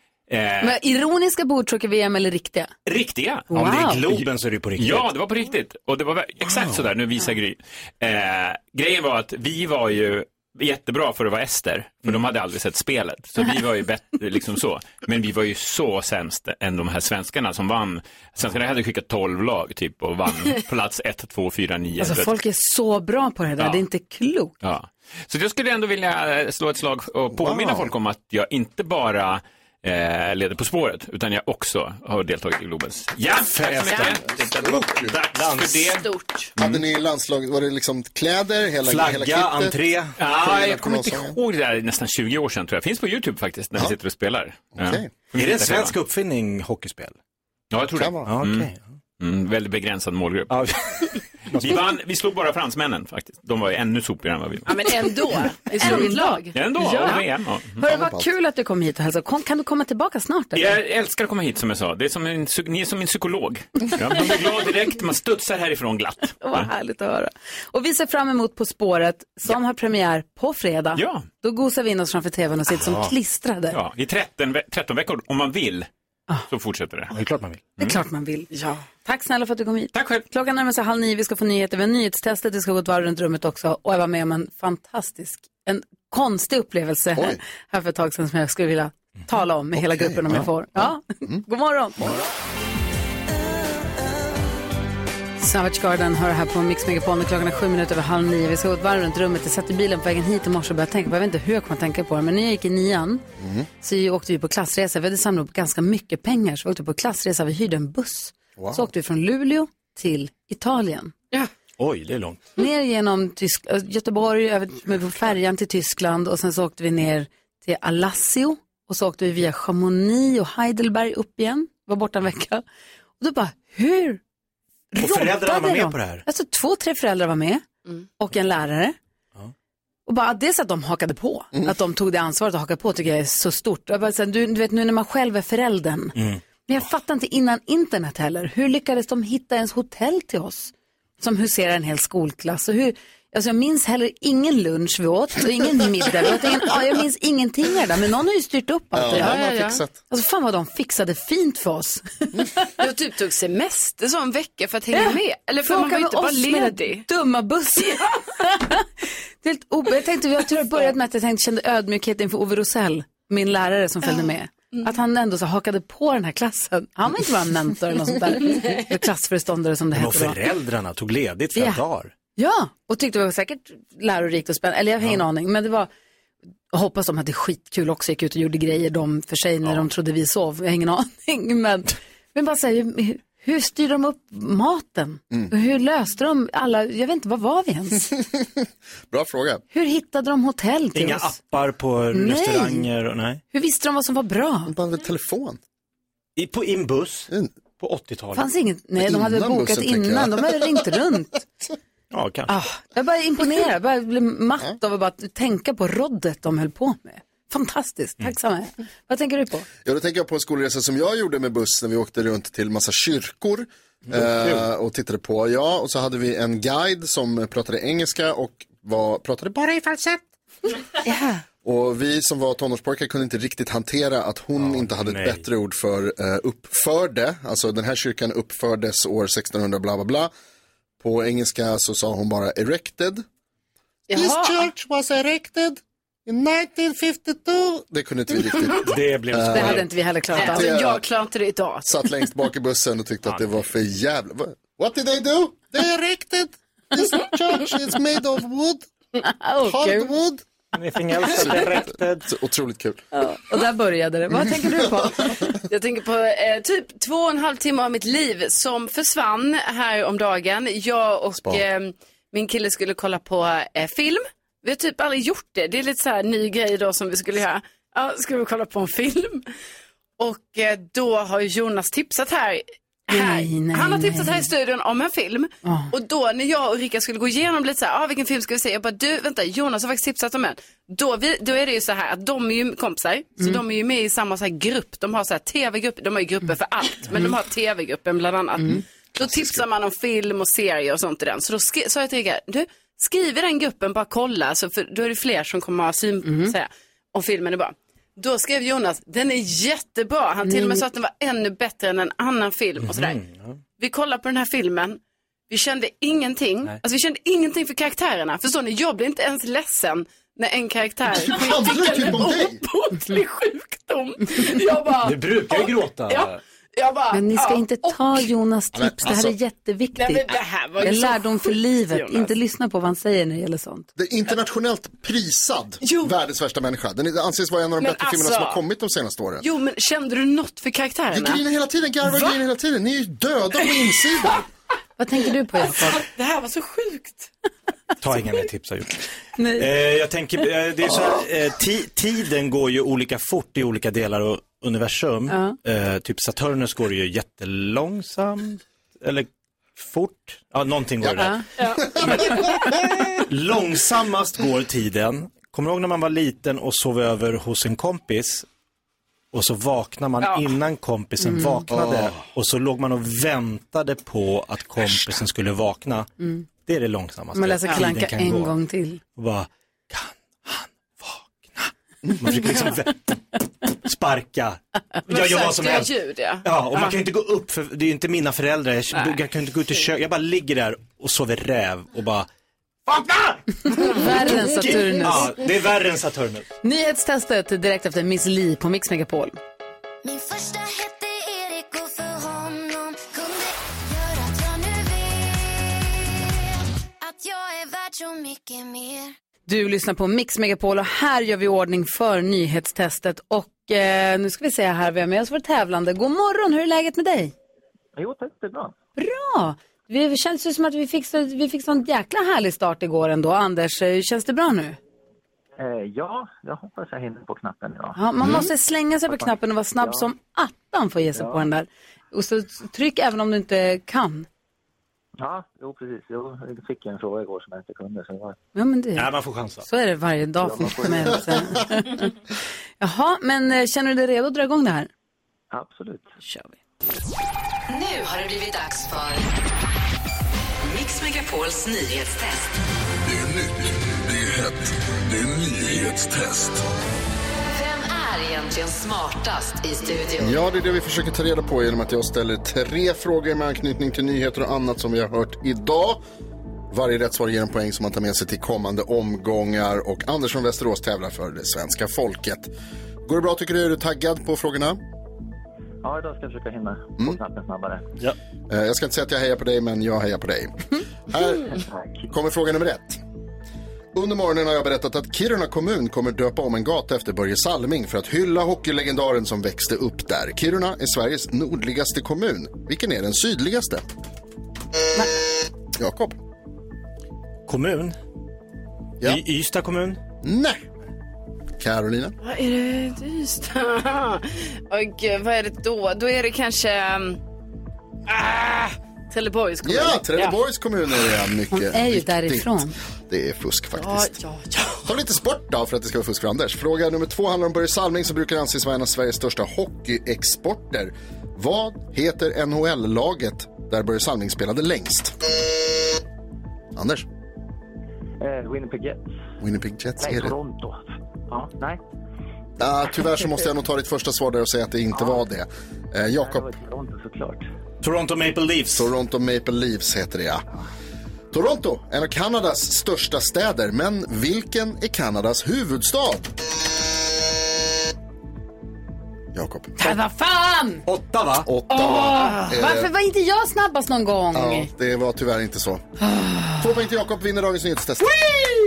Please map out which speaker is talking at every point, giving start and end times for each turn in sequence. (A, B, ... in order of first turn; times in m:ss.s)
0:00.3-0:00.8 A
0:00.6-0:02.7 B
0:02.9-0:03.5 A
0:03.5-0:04.0 B
0:03.5-0:05.1 C
0:04.8-0:22.3 A
0:22.0-0:24.5 B
0:23.6-0:23.8 A
0:24.6-0:36.0 A
0:27.3-0:27.9 D
0:33.4-0:34.1 C
0:33.9-0:34.2 E
0:34.0-0:35.2 D
0:35.2-0:36.0 C
0:35.8-0:36.5 E
0:36.6-0:36.8 A
0:36.6-0:41.4 D
0:38.8-0:40.2 C
0:40.2-0:46.0 A
0:44.8-0:45.1 D
0:45.3-0:47.2 C
0:47.7-0:48.7 A
0:48.0-0:48.3 D
0:48.2-0:48.8 C
0:49.2-0:51.1 A
0:50.5-0:51.9 C
0:51.6-0:54.8 A
0:54.7-0:57.2 E
0:55.7-0:57.2 B
0:56.5-0:57.8 A
0:57.8-1:00.8 B
0:57.8-0:58.3 D
1:00.6-1:06.7 A
1:06.4-1:13.8 B
1:11.0-1:11.3 A
1:12.7-1:13.1 C
1:13.7-1:15.9 A
1:16.5-1:17.1 A
1:17.1-1:17.7 C
1:17.8-1:32.2 B
1:18.5-1:18.8 E
1:19.9-1:20.2 A
1:27.2-1:27.4 D
1:29.8-1:30.5 D
1:35.4-1:43.2 B
1:43.4-1:43.7 D
1:43.8-1:51.1 B
1:48.6-1:48.9 D
1:51.8-1:52.4 C
1:52.6-2:02.6 B
2:03.2-2:04.2 B
2:04.9-2:09.0 B
2:05.0-2:06.2 C
2:10.1-2:29.4 B
2:16.2-2:16.4 C
2:28.9-2:30.0 D
2:29.1-2:29.8 E
2:30.1-2:32.4 B
2:32.8-2:37.1 E
2:34.9-2:38.9 B
2:39.4-2:50.4 B
2:44.0-2:44.9 E
2:49.9-2:52.1 C
2:51.6-2:51.8 B
2:52.4-2:55.9 B
2:56.7-3:08.1 B
3:08.1-3:08.5 D
3:09.1-3:09.6 D
3:09.7-3:11.4 B
3:10.9-3:13.4 C
3:12.1-3:12.9 B
3:13.5-3:14.7 B
3:14.7-3:15.6 D
3:16.4-3:18.5 C
3:18.3-3:21.4 B
3:19.0-3:20.8 D
3:22.1-3:22.5 C
3:22.5-3:29.7 B
3:29.8-3:40.2 D
3:34.1-3:34.6 C
3:41.6-3:50.3 D
3:44.6-3:45.4 C
3:51.0-3:53.2 D
3:54.1-3:54.7 E
3:54.1-3:59.8 D
3:58.8-3:59.9 C
3:59.5-4:00.6 B
4:00.4-4:01.0 D
4:00.4-4:01.9 E
4:01.8-4:08.9 D
4:09.2-4:10.1 B
4:09.6-4:10.4 D
4:10.7-4:12.2 C
4:11.3-4:13.0 D
4:13.1-4:15.4 B
4:15.7-4:29.5 E
4:30.2-5:03.2 E
4:33.1-4:34.5 B
4:35.6-4:35.9 B
4:49.2-4:49.6 D
4:56.2-4:56.5 B
5:00.4-5:00.8 B
5:02.8-5:03.6 C
5:03.8-5:18.2 E
5:11.1-5:12.6 D
5:15.0-5:16.4 C
5:17.1-5:23.9 B
5:18.7-5:19.4 D
5:20.0-5:22.3 E
5:24.0-5:29.5 D
5:25.8-5:26.1 E
5:27.8-5:28.6 E
5:29.4-5:31.4 E
5:31.1-5:34.4 D
5:35.0-5:36.0 B
5:35.8-5:37.3 E
5:38.0-5:39.0 C
5:39.4-5:39.7 B
5:39.6-5:51.4 C
5:45.3-5:45.6 B
5:53.2-5:58.5 C
5:59.3-6:06.1 C
6:01.2-6:01.7 B
6:01.7-6:02.2 D
6:06.6-6:22.3 C
6:07.3-6:09.0 B
6:15.1-6:17.0 E
6:18.9-6:19.2 E
6:22.9-6:26.4 C
6:23.7-6:25.3 B
6:26.6-6:29.4 B
6:30.0-6:36.4 F
6:37.0-6:39.1 F
6:39.5-6:47.3 B
6:48.0-6:48.8 G
6:49.0-6:54.8 B
6:55.6-6:58.3 G
6:58.0-7:04.3 B
6:59.1-7:00.1 G
7:01.2-7:01.5 G
7:05.2-7:08.4 G
7:08.6-7:12.1 B
7:09.0-7:09.6 C
7:10.4-7:11.6 G
7:12.8-7:14.9 B
7:15.5-7:16.1 G
7:16.2-7:16.5 B
7:17.7-7:19.3 H
7:20.6-7:22.5 H
7:23.0-7:26.6 I
7:27.5-7:30.4 H
7:30.2-7:36.0 D
7:36.7-7:42.5 D
7:43.1-7:44.8 D
7:45.8-7:47.9 G
7:48.5-7:53.0 D
7:51.5-7:52.1 G
7:53.9-8:03.9 D
8:05.8-8:06.2 D
8:07.5-8:08.0 C
8:09.0-8:10.0 C
8:10.2-8:10.6 D
8:11.6-8:12.2 D
8:12.2-8:17.2 E
8:18.1-8:20.4 E
8:19.6-8:24.2 D
8:21.5-8:22.8 B
8:23.7-8:24.9 E
8:24.8-8:35.2 D
8:36.8-8:37.1 D
8:38.2-8:39.1 G
8:39.4-8:40.3 D
8:40.0-8:41.8 G
8:42.6-8:46.5 D
8:44.9-8:45.2 G
8:46.1-8:47.5 G
8:47.8-8:48.9 C
8:48.8-8:50.5 D
8:51.3-8:56.3 D
8:59.3-8:59.8 D
8:59.8-9:00.8 B
9:00.9-9:01.5 C
9:01.4-9:02.9 D
9:01.7-9:04.7 B
9:04.3-9:05.8 D
9:06.0-9:06.6 B
9:06.6-9:08.3 D